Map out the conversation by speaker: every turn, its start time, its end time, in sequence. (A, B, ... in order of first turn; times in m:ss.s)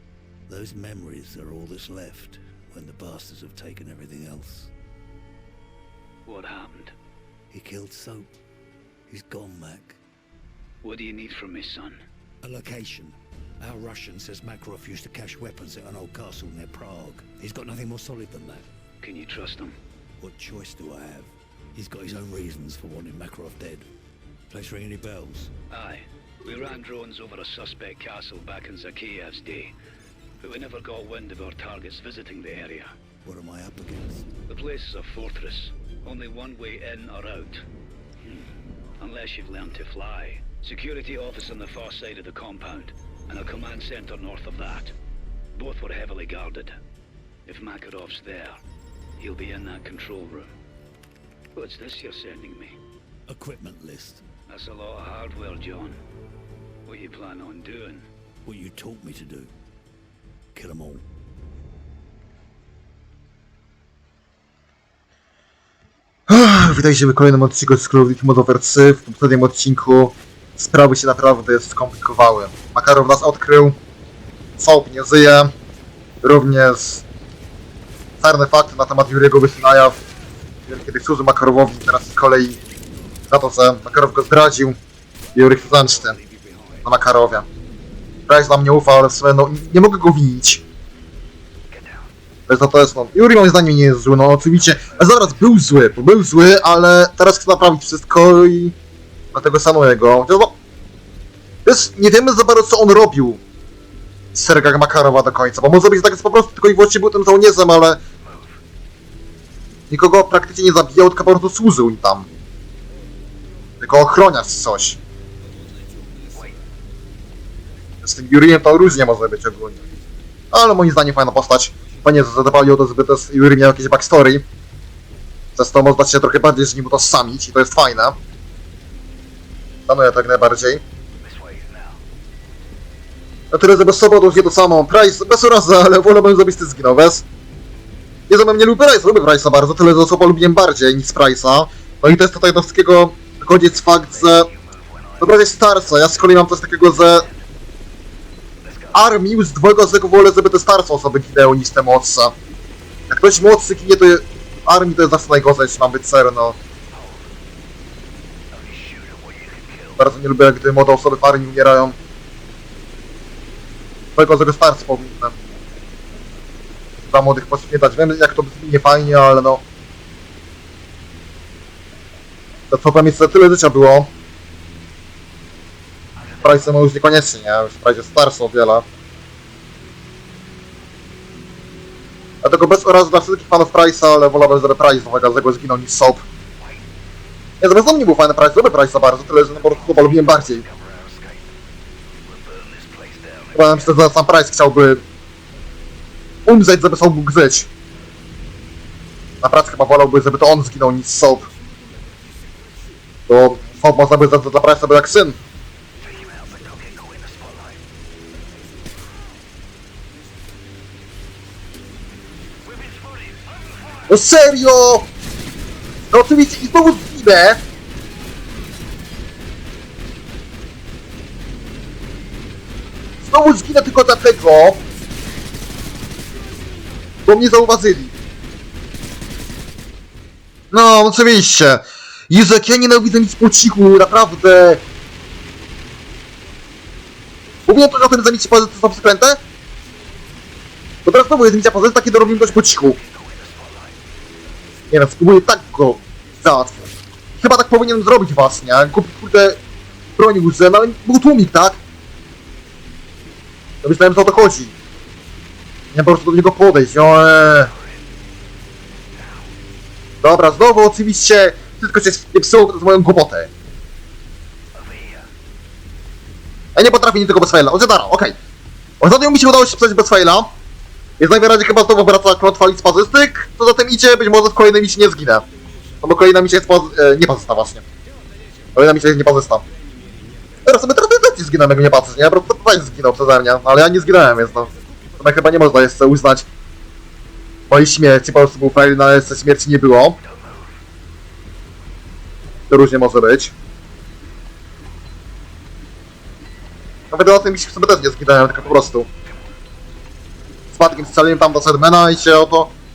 0:00.5-0:04.7 A
0:06.3-0:06.9 B
0:07.5-0:08.3 A
0:09.1-0:10.0 A
0:10.8-0:12.0 B
0:12.4-0:18.7 A
0:19.0-0:19.8 B
0:20.2-0:23.9 A
0:24.5-0:25.5 A
0:25.7-0:29.7 B
0:30.4-0:32.9 B
0:33.2-0:34.4 A
0:34.5-0:37.6 B
0:39.0-0:44.9 B
0:45.6-0:46.8 B
0:47.5-0:48.6 B
0:49.2-0:50.5 B
0:51.6-0:52.8 B
0:53.3-0:54.3 A
0:54.5-0:56.0 B
0:56.9-0:58.1 B
0:58.4-0:59.5 A
1:00.5-1:01.0 A
1:06.3-1:13.8 C
1:14.6-1:15.5 C
1:16.2-1:17.1 C
1:18.2-1:20.0 C
1:20.7-1:22.6 C
1:23.3-1:24.8 C
1:25.4-1:26.2 C
1:25.7-1:26.9 A
1:26.8-1:27.5 C
1:28.3-1:30.6 C
1:31.8-1:32.0 A
1:32.5-1:38.8 C
1:34.8-1:35.1 A
1:39.3-1:40.6 C
1:41.6-1:43.4 C
1:44.3-1:48.0 C
1:49.9-1:52.3 C
1:53.8-1:55.0 C
1:58.0-1:59.8 C
2:00.5-2:04.4 C
2:05.6-2:08.2 C
2:09.9-2:10.8 C
2:11.3-2:12.0 A
2:13.5-2:17.2 C
2:18.3-2:24.5 C
2:25.2-2:27.3 C
2:28.9-2:32.4 C
2:33.1-2:36.6 C
2:38.6-2:39.7 A
2:39.6-2:39.9 B
2:40.0-2:42.0 C
2:44.2-2:45.4 C
2:47.1-2:49.6 C
2:52.7-2:54.1 C
2:56.4-2:58.9 C
3:02.4-3:06.2 C
3:07.6-3:10.6 C
3:09.6-3:11.5 A
3:12.3-3:13.8 A
3:13.6-3:15.0 C
3:16.5-3:17.7 C
3:19.4-3:21.5 C
3:23.3-3:25.4 C
3:26.1-3:27.8 A
3:34.1-3:35.1 C
3:36.1-3:37.6 C
3:43.2-3:44.8 C
3:47.2-3:48.1 C
3:50.7-3:54.8 C
3:57.7-3:59.4 C
4:01.0-4:03.0 C
4:03.2-4:04.0 A
4:04.9-4:09.6 C
4:10.2-4:11.8 C
4:13.8-4:14.8 C
4:15.9-4:17.7 C
4:20.2-4:23.5 C
4:24.8-4:25.2 A
4:26.8-4:28.4 C
4:29.0-4:30.5 C
4:31.2-4:35.4 C
4:36.0-4:37.8 C
4:38.8-4:39.6 C
4:40.6-4:46.5 C
4:47.7-4:50.2 C
4:52.7-4:53.5 C
4:57.1-4:59.1 C
5:00.7-5:02.7 C